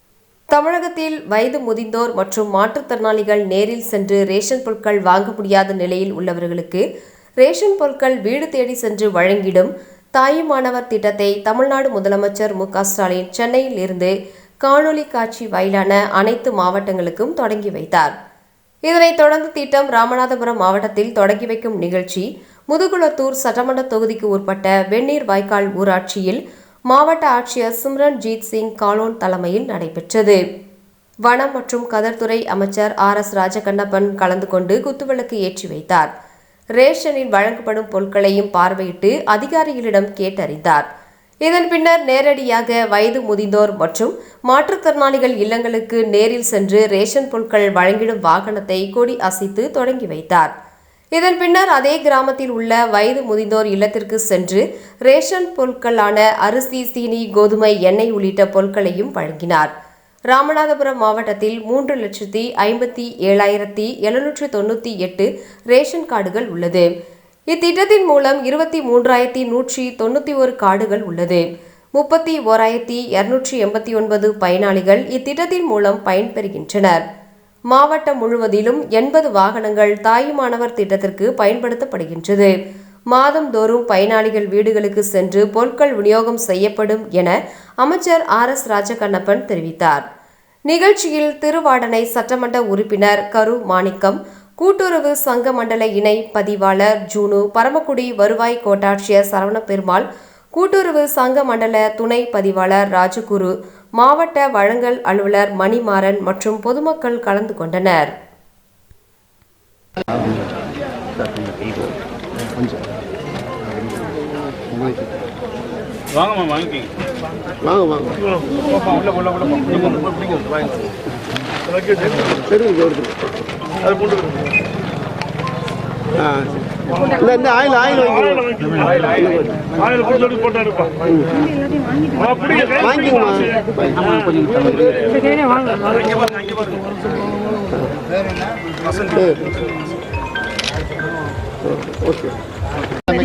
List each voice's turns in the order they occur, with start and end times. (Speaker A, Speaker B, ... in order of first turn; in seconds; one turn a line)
Speaker A: 0.5-6.8
Speaker A: 7.4-18.1
Speaker A: 18.9-30.4
Speaker A: 31.3-36.1
Speaker A: 36.8-40.9
Speaker A: 41.5-50.5
Speaker A: 51.2-59.7
Speaker A: 60.3-66.9
Speaker A: 67.5-77.0
Speaker A: 77.7-82.5
Speaker A: 83.1-90.0
Speaker A: 90.7-108.1
Speaker B: 110.1-110.5
Speaker B: 111.2-112.0
Speaker B: 114.7-115.1
Speaker C: 116.1-116.9
Speaker B: 117.6-118.4
Speaker C: 118.8-120.8
Speaker B: 122.2-123.2
Speaker B: 126.2-131.4
Speaker B: 132.2-135.3
Speaker B: 137.5-137.9
Speaker B: 138.9-139.5
Speaker B: 141.7-142.3